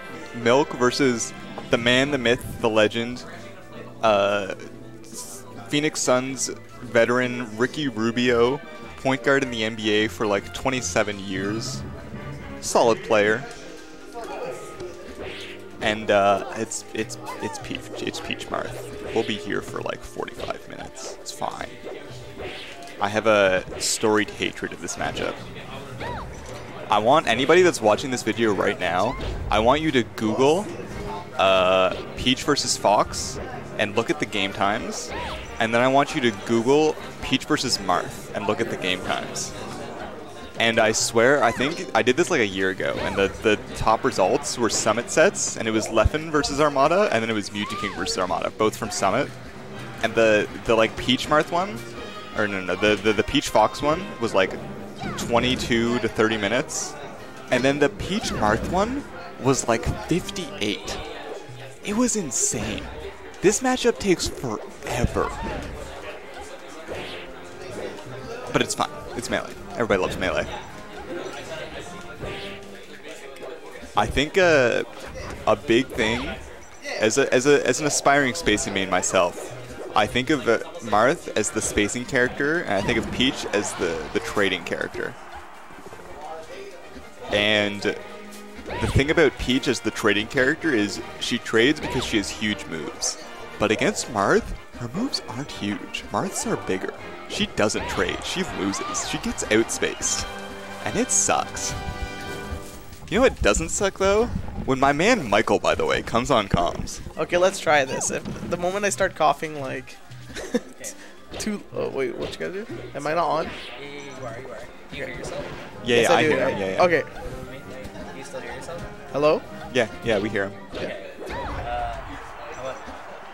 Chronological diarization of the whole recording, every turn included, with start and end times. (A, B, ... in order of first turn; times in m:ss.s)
0:00.3-0:03.2 A
0:04.0-0:04.6 A
0:05.1-0:11.8 A
0:12.6-0:13.5 A
0:15.8-0:21.8 A
0:23.0-0:25.4 A
0:26.9-0:30.7 A
0:31.4-0:39.5 A
0:40.6-0:49.3 A
0:50.0-0:51.8 A
0:52.3-0:54.6 A
0:55.2-0:56.9 A
0:57.5-1:01.0 A
1:01.8-1:02.9 A
1:03.4-1:05.4 A
1:08.5-1:10.5 A
1:14.0-1:14.9 A
1:15.4-1:16.4 A
1:17.0-1:25.2 A
1:27.3-1:28.0 A
1:28.8-1:40.3 A
1:40.8-1:41.8 A
1:43.1-1:47.0 A
1:47.2-1:50.9 B
1:51.4-1:53.5 B
1:53.8-1:55.5 C
1:55.8-1:56.9 A
1:55.9-1:57.1 B
1:56.3-1:58.9 C
1:59.1-1:59.4 B
1:59.7-2:00.6 A
2:00.7-2:02.8 C